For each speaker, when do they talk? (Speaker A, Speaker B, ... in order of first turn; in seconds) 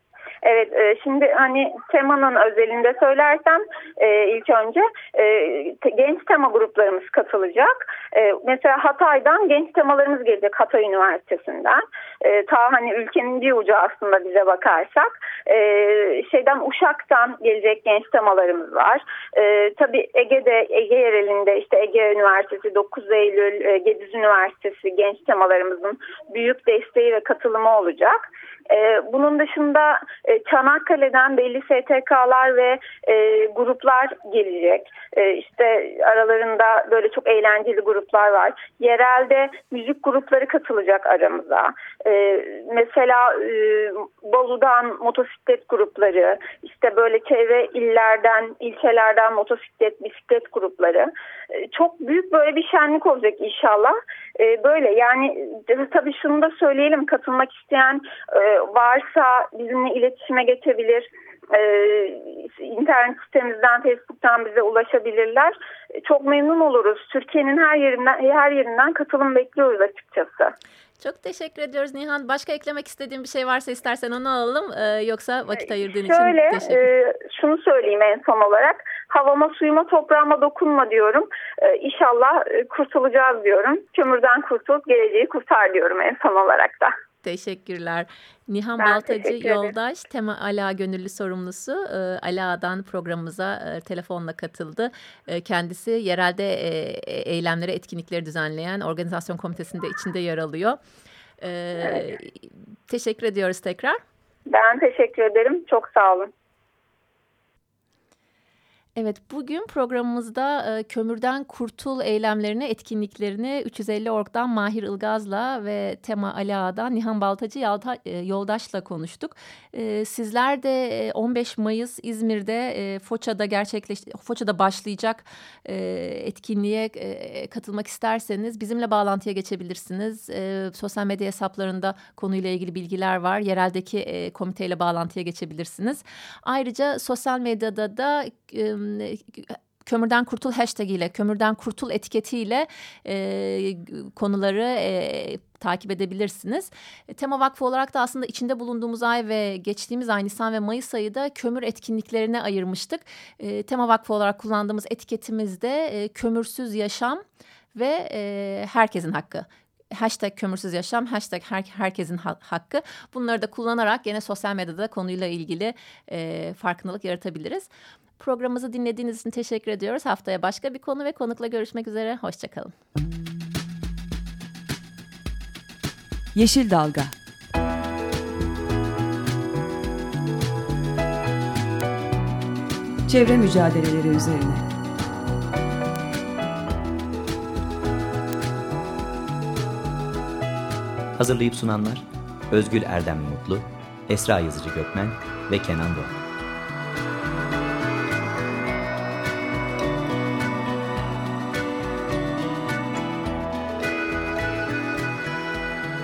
Speaker A: 0.4-70.5, 76.0-86.9, 88.8-89.7, 104.5-106.3
Speaker B: 71.0-76.8, 87.2-100.8, 101.4-104.0, 109.0-157.2, 157.7-167.7, 168.2-172.7
Speaker C: 176.3-177.1, 183.1-184.7
Speaker D: 191.2-196.2